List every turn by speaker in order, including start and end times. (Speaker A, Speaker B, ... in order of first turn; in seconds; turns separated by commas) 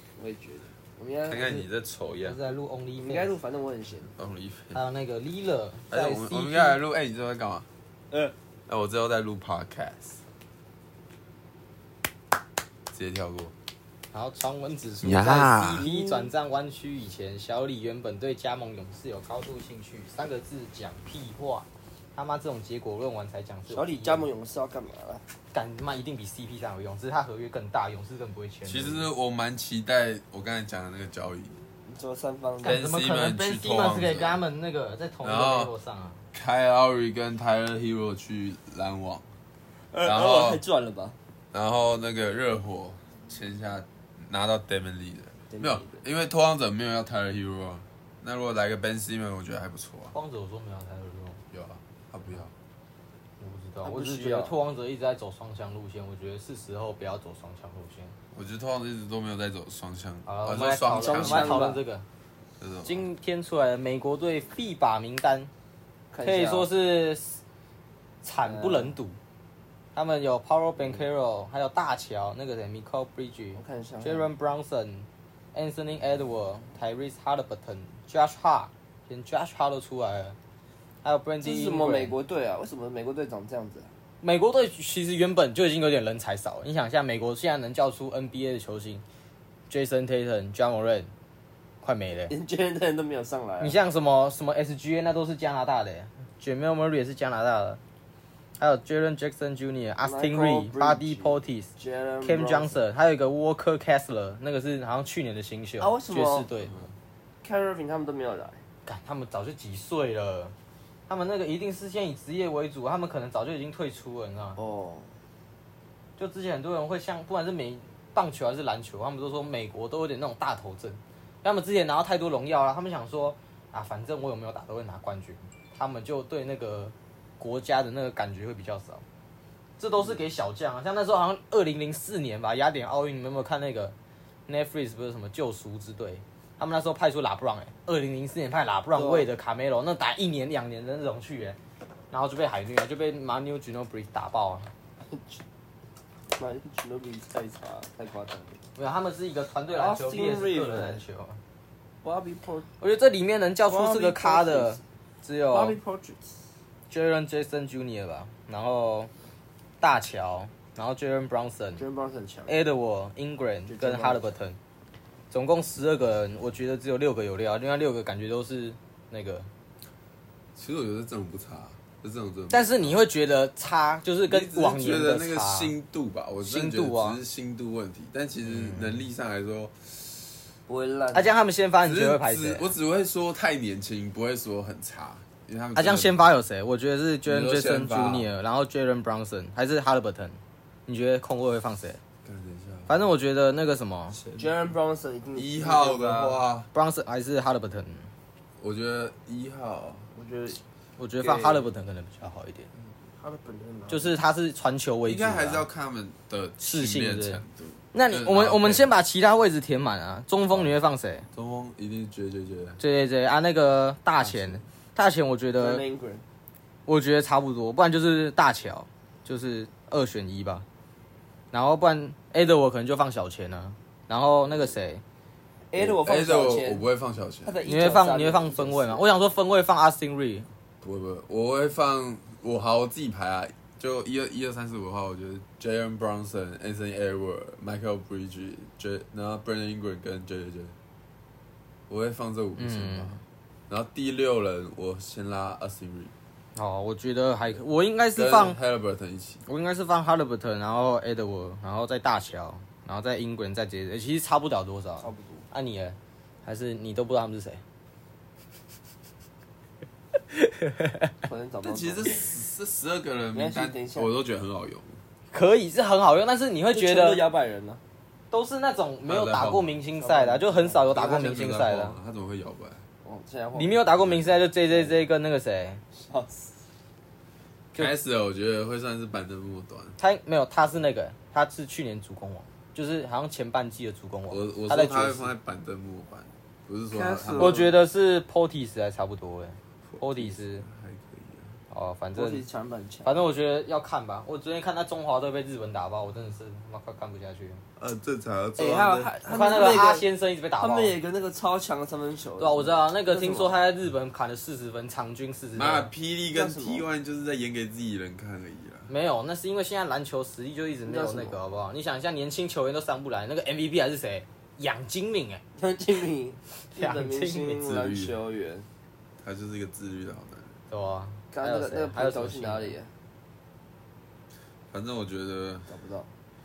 Speaker A: 0.2-1.6, Speaker B: 1.3-2.4, Speaker C: 2.2-3.3, Speaker A: 3.0-4.1, Speaker B: 4.2-4.8, Speaker C: 4.7-6.8, Speaker B: 5.9-7.7, Speaker B: 8.7-10.2, Speaker B: 12.9-13.5, Speaker C: 14.1-24.3, Speaker B: 15.0-15.8, Speaker A: 15.6-16.3, Speaker A: 23.7-25.2, Speaker C: 25.5-29.1, Speaker B: 28.7-31.6, Speaker A: 31.9-32.8, Speaker C: 32.6-36.2, Speaker B: 32.6-34.4, Speaker B: 35.2-35.7, Speaker B: 36.3-39.2, Speaker A: 39.9-41.1, Speaker B: 40.0-40.6, Speaker B: 41.5-50.1, Speaker A: 45.5-46.0, Speaker C: 50.1-51.4, Speaker B: 51.5-52.5, Speaker C: 53.4-58.1, Speaker A: 53.8-54.5, Speaker B: 58.3-61.7, Speaker C: 60.2-62.0, Speaker A: 60.9-61.8, Speaker B: 62.6-63.1, Speaker C: 62.8-65.5, Speaker A: 66.1-66.7, Speaker C: 66.2-67.4, Speaker C: 68.2-69.2, Speaker A: 68.4-69.0, Speaker C: 69.9-80.4, Speaker A: 73.5-74.3, Speaker C: 81.0-82.1, Speaker A: 81.4-83.9, Speaker C: 84.2-89.0, Speaker C: 89.7-91.1, Speaker C: 91.8-92.3, Speaker A: 92.3-93.8, Speaker C: 93.6-97.8, Speaker C: 98.6-101.7, Speaker A: 100.0-102.8, Speaker C: 102.2-106.8, Speaker A: 105.8-106.5, Speaker A: 107.4-108.6, Speaker C: 108.8-110.5, Speaker C: 111.1-114.6, Speaker A: 114.6-115.1, Speaker C: 116.2-129.0, Speaker C: 129.8-133.9, Speaker C: 134.5-141.6, Speaker A: 138.9-139.3, Speaker C: 142.1-144.7, Speaker A: 145.1-145.4, Speaker A: 146.4-148.6, Speaker C: 148.8-151.4, Speaker A: 149.7-151.0, Speaker A: 152.0-152.7, Speaker C: 152.8-155.8, Speaker A: 153.7-154.8, Speaker A: 155.5-156.3, Speaker C: 156.9-159.1, Speaker C: 159.8-161.8, Speaker A: 161.8-162.6, Speaker C: 162.5-164.6, Speaker A: 163.7-164.3, Speaker C: 165.3-169.5, Speaker B: 170.6-173.0, Speaker C: 172.5-175.7, Speaker B: 174.3-180.3, Speaker C: 176.4-177.2, Speaker C: 178.4-179.0, Speaker A: 180.7-181.3, Speaker C: 181.1-182.7, Speaker B: 181.8-186.2, Speaker C: 185.7-192.0, Speaker B: 187.2-188.3, Speaker B: 192.2-193.1, Speaker C: 192.9-194.2, Speaker B: 194.1-194.6, Speaker A: 194.3-196.4, Speaker B: 195.3-196.7, Speaker C: 196.7-198.1, Speaker B: 198.6-200.1, Speaker A: 200.1-200.6, Speaker C: 201.0-202.7, Speaker A: 201.2-201.7, Speaker A: 203.2-204.1, Speaker C: 203.9-205.6, Speaker B: 205.1-208.9, Speaker C: 206.6-207.4, Speaker C: 207.9-211.3, Speaker B: 211.3-212.8, Speaker C: 212.8-215.8, Speaker B: 214.2-214.6, Speaker A: 215.6-216.2, Speaker C: 216.8-220.6, Speaker C: 221.5-225.0, Speaker A: 225.7-226.8, Speaker B: 225.8-227.5, Speaker A: 227.4-229.0, Speaker C: 227.6-230.5, Speaker B: 230.8-240.7, Speaker B: 241.9-243.1, Speaker C: 242.6-243.2, Speaker B: 243.7-246.1, Speaker C: 246.6-248.6, Speaker B: 248.2-249.4, Speaker C: 249.4-257.6, Speaker A: 255.0-255.4, Speaker C: 260.3-261.1, Speaker A: 261.2-262.3, Speaker B: 261.6-265.0, Speaker A: 263.3-264.1, Speaker C: 265.3-267.2, Speaker A: 266.7-267.8, Speaker C: 268.3-271.9, Speaker B: 269.1-269.8, Speaker A: 270.0-271.1, Speaker B: 270.9-272.8, Speaker A: 273.0-273.9, Speaker C: 273.6-275.8, Speaker B: 274.0-274.4, Speaker A: 274.7-275.0, Speaker A: 275.9-276.5, Speaker B: 277.8-280.0, Speaker C: 280.0-285.3, Speaker B: 284.3-287.6, Speaker A: 286.9-287.7, Speaker C: 287.4-290.6, Speaker B: 289.9-291.5, Speaker C: 291.7-292.4, Speaker A: 292.1-293.2, Speaker C: 293.0-297.6, Speaker B: 297.8-299.1, Speaker A: 298.6-303.6, Speaker C: 299.2-300.9, Speaker C: 302.4-305.9, Speaker B: 305.5-308.9, Speaker A: 306.3-306.8, Speaker C: 308.9-315.4, Speaker A: 310.9-311.4, Speaker A: 315.6-318.7, Speaker C: 316.7-317.7, Speaker B: 317.6-318.1, Speaker B: 319.2-320.5, Speaker C: 320.7-322.7, Speaker A: 321.3-322.9, Speaker B: 324.7-325.6, Speaker A: 325.7-326.1